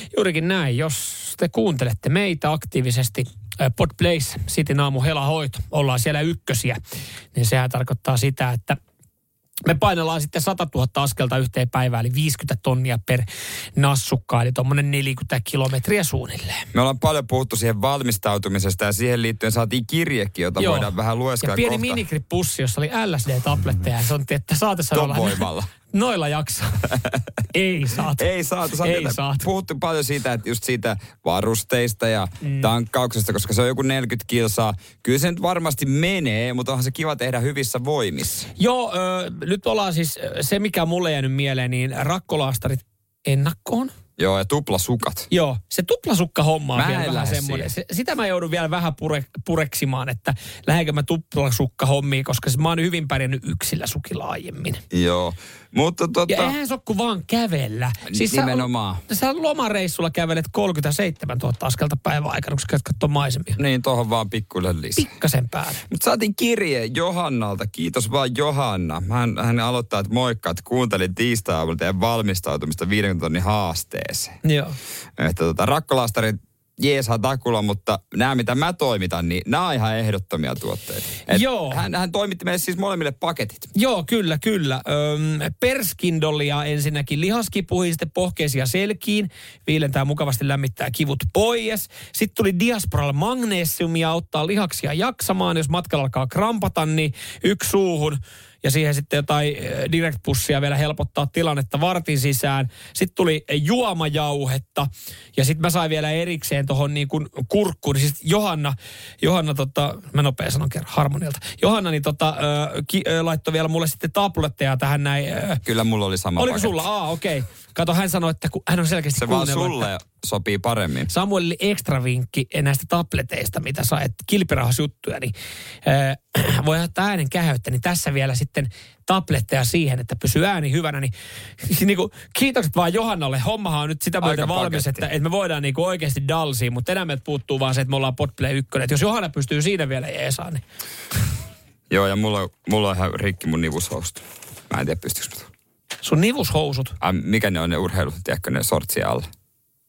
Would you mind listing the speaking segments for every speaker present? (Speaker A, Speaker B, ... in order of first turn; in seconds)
Speaker A: 0.1-6.8, 7.3-8.8, 9.7-16.7, 20.6-26.8, 27.5-28.2, 28.8-29.5, 32.4-32.7, 38.6-43.9, 45.3-54.8, 56.3-63.6, 65.0-65.8, 74.4-74.8, 81.3-81.8, 83.8-115.6, 116.4-119.9, 121.1-125.3, 125.8-140.6, 146.0-146.9
Speaker B: 16.7-22.0, 24.9-25.7, 28.2-38.5, 44.2-45.3, 46.8-47.7, 54.9-56.5, 58.1-59.0, 63.6-65.1, 65.9-74.4, 75.2-83.7, 115.6-116.8, 119.2-121.1, 134.2-135.1, 141.9-145.5, 147.0-149.3